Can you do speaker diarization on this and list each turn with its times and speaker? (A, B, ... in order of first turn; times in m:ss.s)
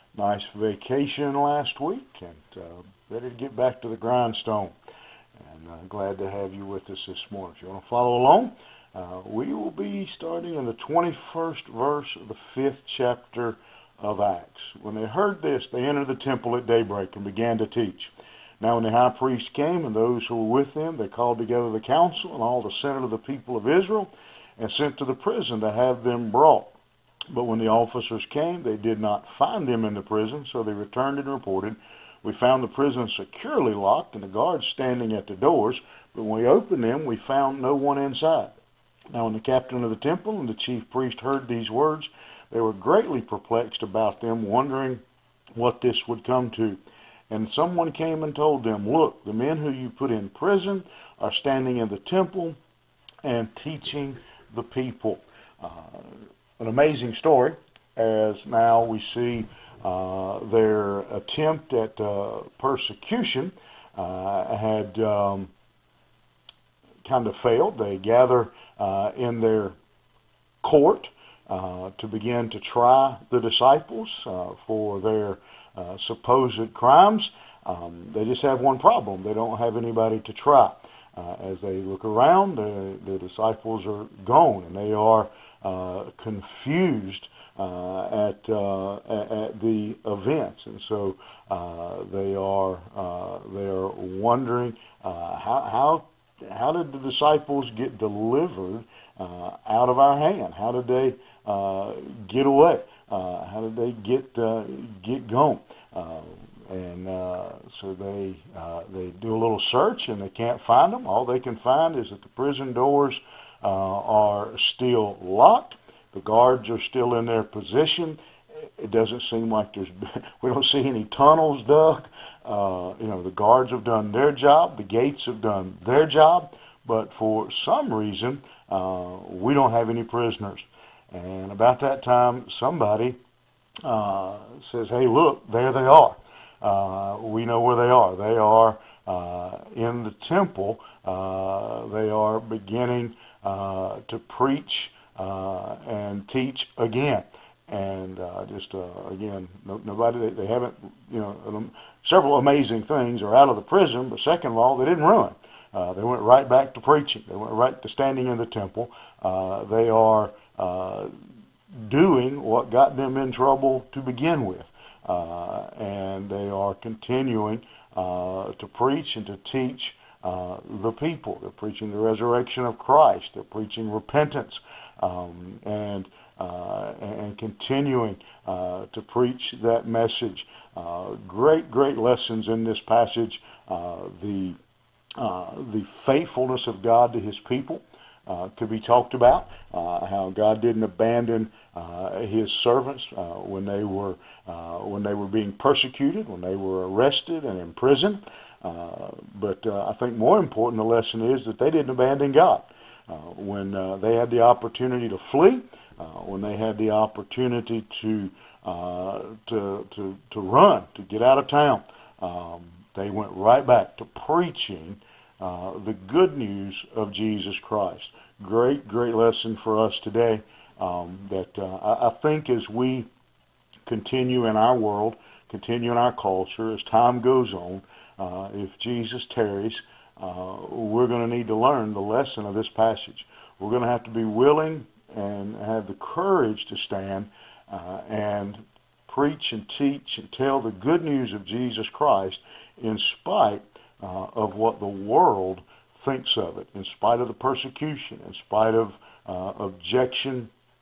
0:00.2-0:04.7 A
0:05.4-0:26.8 A
0:27.3-0:38.6 A
0:39.1-0:45.0 A
0:45.6-0:52.6 A
0:53.2-1:05.5 A
1:07.0-1:09.8 A
1:10.6-2:13.2 A
2:13.8-2:41.2 A
2:41.7-3:04.6 A
3:05.2-3:43.1 A
3:43.9-4:10.5 A